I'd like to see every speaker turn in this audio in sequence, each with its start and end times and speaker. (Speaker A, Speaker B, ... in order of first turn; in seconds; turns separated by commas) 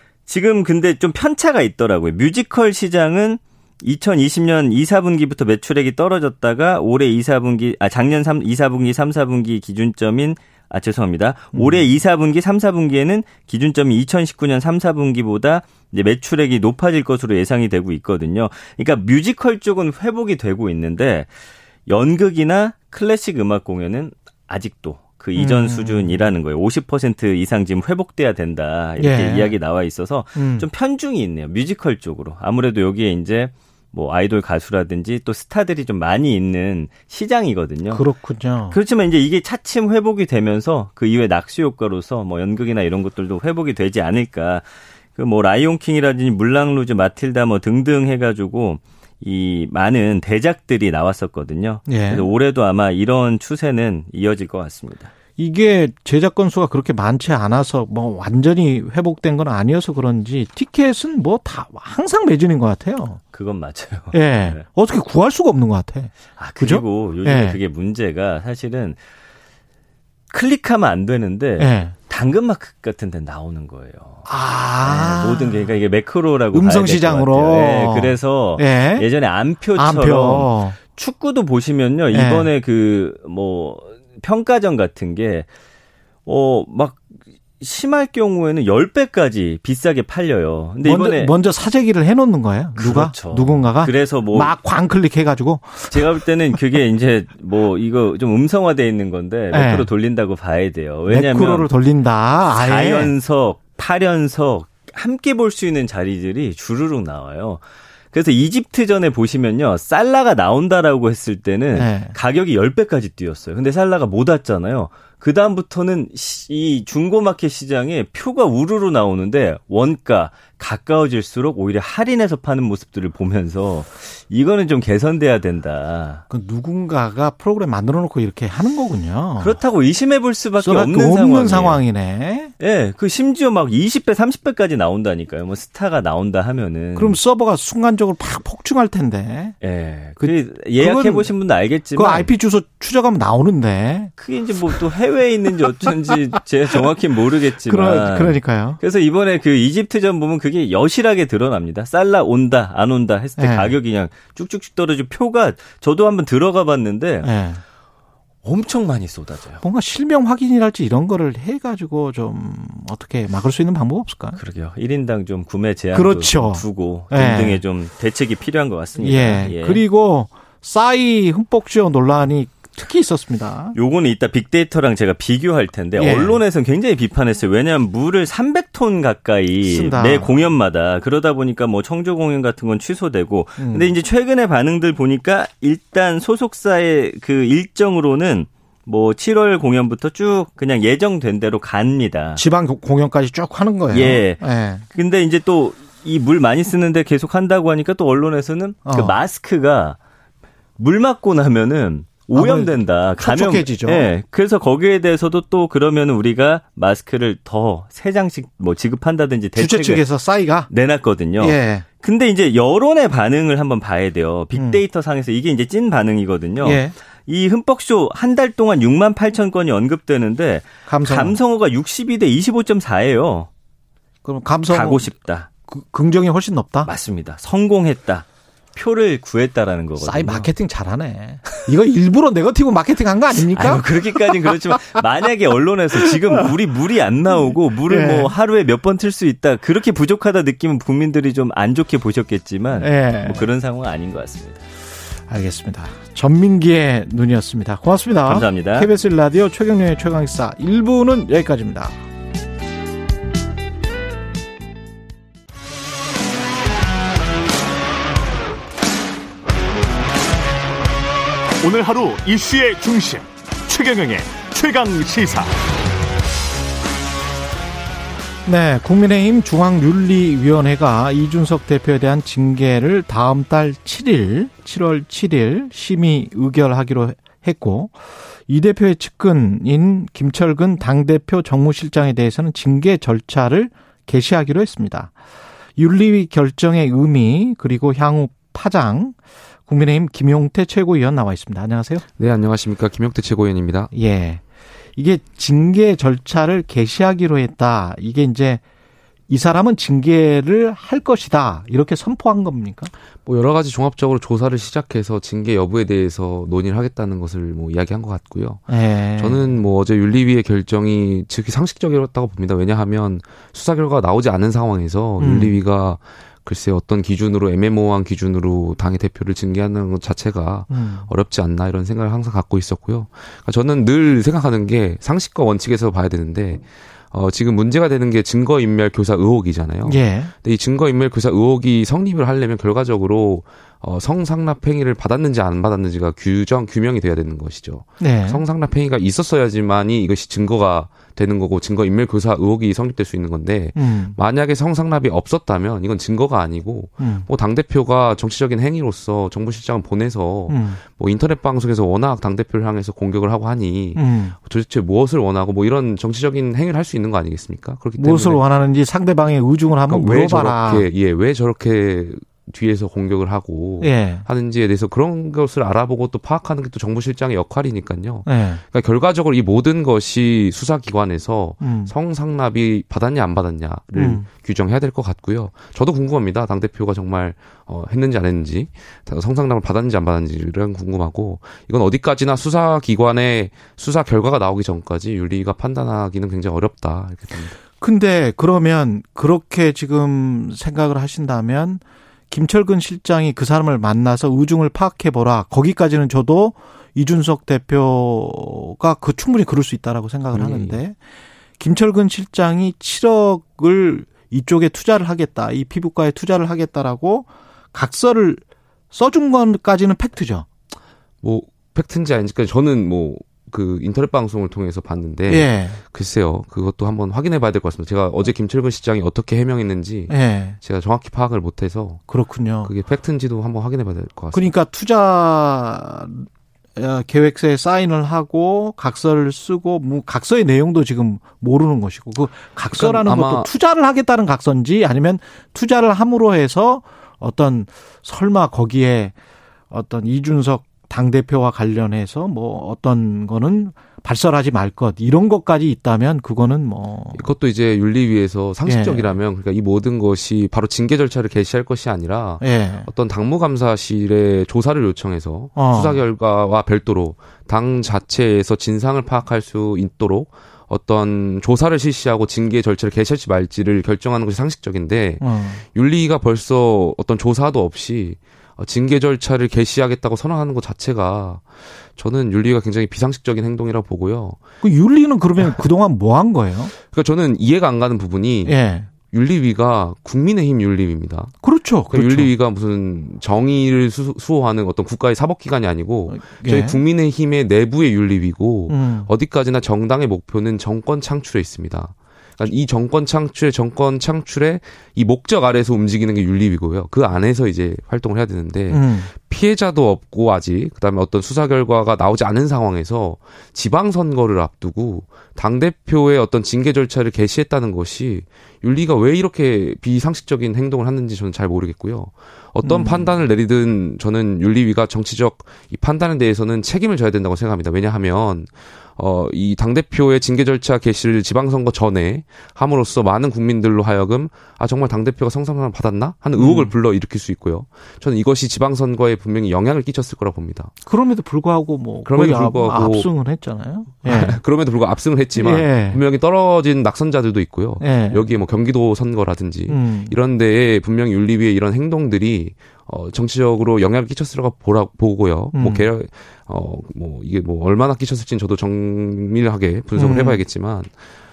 Speaker A: 0.3-21.3, Speaker B: 11.6-11.9, Speaker A: 21.9-38.0, Speaker B: 25.4-26.2, Speaker B: 29.0-29.5, Speaker B: 30.4-30.7, Speaker B: 37.9-38.8, Speaker A: 38.7-55.1, Speaker B: 51.9-52.3, Speaker B: 55.4-63.2, Speaker A: 63.3-64.7, Speaker B: 64.1-67.6, Speaker A: 66.3-69.0, Speaker A: 70.3-74.3, Speaker B: 71.6-71.9, Speaker B: 74.3-75.6, Speaker A: 74.8-85.5, Speaker B: 76.5-79.1, Speaker B: 79.7-80.8, Speaker B: 82.1-82.5, Speaker A: 86.3-91.3, Speaker B: 90.8-96.2, Speaker A: 92.8-94.6, Speaker A: 95.9-101.7, Speaker B: 99.5-99.9, Speaker B: 101.1-103.1, Speaker A: 102.5-126.2, Speaker B: 111.7-112.2, Speaker B: 126.3-129.6, Speaker A: 129.4-131.8, Speaker B: 130.6-132.5, Speaker A: 132.6-137.2, Speaker B: 136.9-139.6, Speaker A: 139.6-142.3, Speaker B: 140.2-141.3, Speaker B: 141.9-144.1, Speaker A: 144.2-157.3, Speaker B: 147.6-148.8, Speaker B: 153.4-153.8, Speaker B: 157.2-157.6, Speaker A: 158.4-159.6, Speaker B: 159.6-164.4, Speaker A: 164.3-169.8, Speaker B: 165.9-167.6, Speaker B: 169.0-173.8, Speaker A: 173.7-192.4, Speaker B: 176.0-176.4, Speaker B: 179.6-180.5, Speaker B: 183.6-183.9, Speaker B: 192.4-194.8, Speaker A: 193.9-200.0, Speaker B: 198.9-199.2, Speaker A: 200.8-210.1, Speaker B: 202.3-204.1, Speaker B: 209.6-210.7, Speaker A: 210.7-223.5, Speaker B: 211.4-211.9, Speaker B: 214.6-214.8, Speaker B: 216.6-216.9, Speaker B: 220.9-221.4, Speaker B: 224.2-225.2, Speaker A: 224.7-225.5, Speaker B: 225.7-226.9, Speaker A: 226.8-230.5, Speaker B: 230.0-234.0, Speaker A: 233.4-244.6, Speaker B: 237.9-238.3, Speaker B: 242.7-243.5, Speaker B: 245.3-252.0, Speaker A: 248.2-248.9, Speaker C: 261.6-265.7, Speaker B: 268.5-285.1, Speaker B: 285.8-292.1, Speaker D: 292.2-293.9, Speaker B: 293.9-294.4, Speaker B: 295.0-298.6, Speaker B: 299.3-302.9, Speaker D: 303.2-358.4, Speaker B: 308.7-309.6, Speaker B: 315.2-315.6, Speaker B: 320.7-321.1, Speaker B: 329.8-330.3, Speaker B: 338.0-338.4, Speaker B: 343.8-344.2, Speaker B: 347.0-347.3, Speaker B: 350.5-350.8, Speaker B: 353.9-354.4, Speaker B: 358.0-360.9, Speaker D: 359.9-387.6, Speaker B: 363.8-364.2, Speaker B: 368.2-368.6, Speaker B: 371.6-371.9, Speaker B: 374.0-374.3, Speaker B: 387.8-401.0, Speaker D: 400.3-400.8, Speaker B: 401.6-410.5, Speaker D: 411.2-422.0, Speaker B: 415.3-415.8, Speaker B: 420.1-420.6, Speaker B: 422.1-422.7, Speaker D: 422.6-424.5, Speaker B: 424.3-439.1, Speaker D: 432.7-433.5, Speaker B: 439.7-447.3, Speaker D: 447.1-474.4, Speaker B: 448.7-449.1, Speaker B: 452.4-452.9, Speaker B: 455.6-456.0, Speaker B: 465.2-465.6, Speaker B: 474.6-476.7, Speaker D: 476.7-530.7, Speaker B: 478.5-478.9, Speaker B: 481.4-482.3, Speaker B: 486.1-486.8, Speaker B: 488.7-489.1, Speaker B: 498.7-499.1, Speaker B: 512.6-513.1, Speaker B: 526.4-526.7, Speaker B: 530.8-534.4, Speaker D: 532.0-533.1, Speaker D: 534.0-551.0, Speaker B: 535.4-536.0, Speaker B: 537.8-538.3, Speaker B: 539.7-540.2, Speaker B: 545.5-545.9, Speaker B: 550.0-550.5